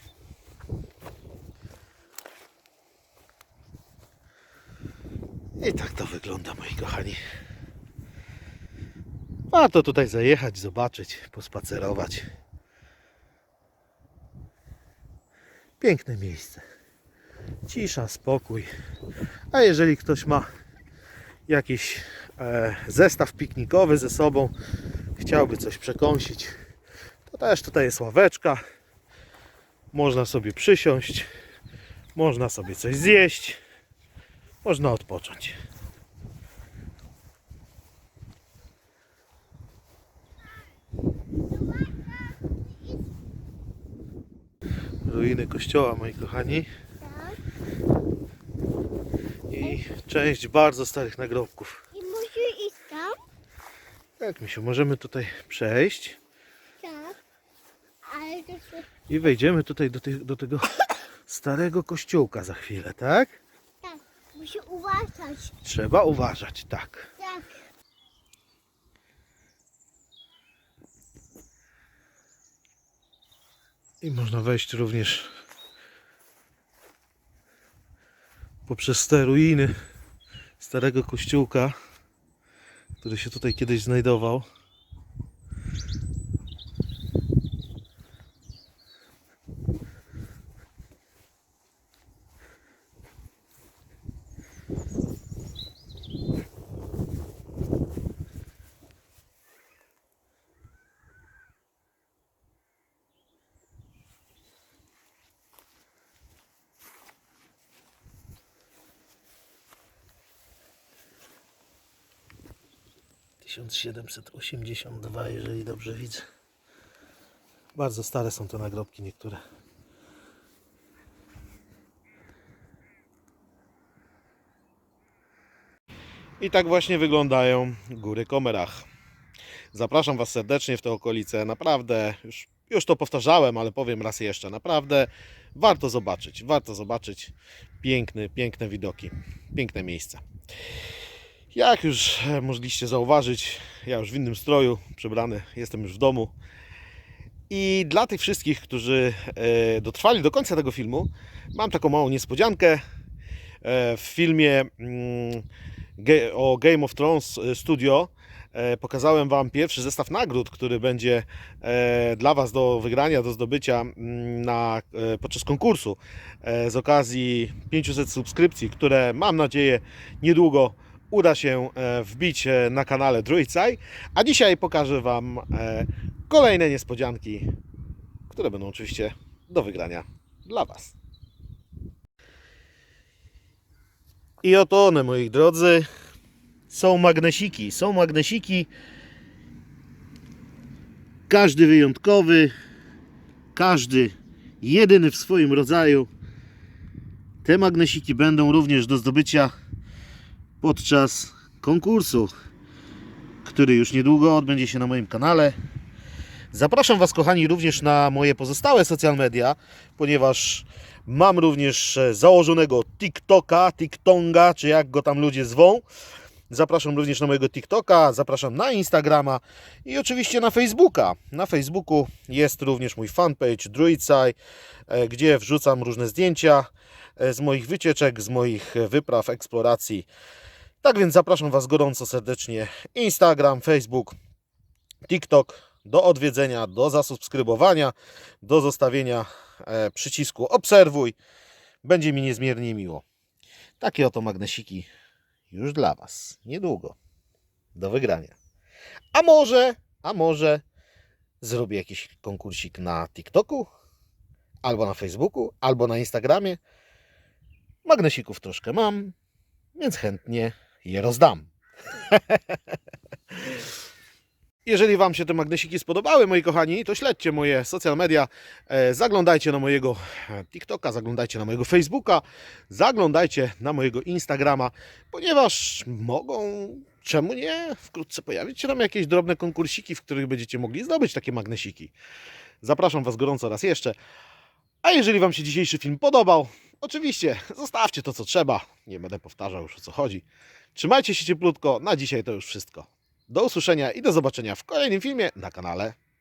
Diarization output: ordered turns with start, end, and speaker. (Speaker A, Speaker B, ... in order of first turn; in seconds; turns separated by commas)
Speaker A: 5.6-7.2, Speaker A: 9.5-12.2, Speaker A: 15.8-16.6, Speaker A: 17.7-18.7, Speaker A: 19.5-20.5, Speaker A: 21.5-24.5, Speaker A: 25.1-26.6, Speaker A: 27.3-28.6, Speaker A: 29.9-31.3, Speaker A: 32.1-33.6, Speaker A: 34.6-35.6, Speaker B: 41.5-43.0, Speaker A: 45.0-46.7, Speaker B: 47.0-47.4, Speaker A: 49.5-51.8, Speaker B: 51.9-53.2, Speaker A: 54.2-56.2, Speaker B: 56.8-57.2, Speaker B: 58.0-58.9, Speaker A: 59.1-63.4, Speaker B: 63.8-65.5, Speaker A: 65.6-67.1, Speaker B: 67.2-67.6, Speaker A: 74.0-75.3, Speaker A: 78.7-79.7, Speaker A: 80.6-81.7, Speaker A: 83.0-84.5, Speaker A: 113.4-116.2, Speaker A: 117.7-119.4, Speaker A: 126.4-128.8, Speaker A: 129.7-140.2, Speaker A: 141.5-146.3, Speaker A: 147.5-152.8, Speaker A: 153.6-155.4, Speaker A: 156.0-177.5, Speaker A: 178.3-180.9, Speaker A: 184.4-185.9, Speaker A: 186.7-188.7, Speaker A: 191.3-192.5, Speaker A: 193.5-196.1, Speaker A: 197.4-199.5, Speaker A: 200.6-202.3, Speaker A: 203.4-205.6, Speaker A: 206.5-215.8, Speaker A: 216.5-224.3, Speaker A: 224.9-230.1, Speaker A: 230.8-234.2, Speaker A: 235.0-241.2, Speaker A: 241.8-243.0, Speaker A: 243.8-244.9, Speaker A: 245.5-246.9, Speaker A: 247.7-248.3, Speaker A: 249.1-250.6, Speaker A: 251.4-253.7, Speaker A: 254.6-256.6, Speaker A: 257.8-259.1, Speaker A: 259.8-261.5, Speaker A: 262.1-262.6, Speaker A: 264.6-281.9, Speaker A: 282.6-283.9, Speaker A: 284.8-295.9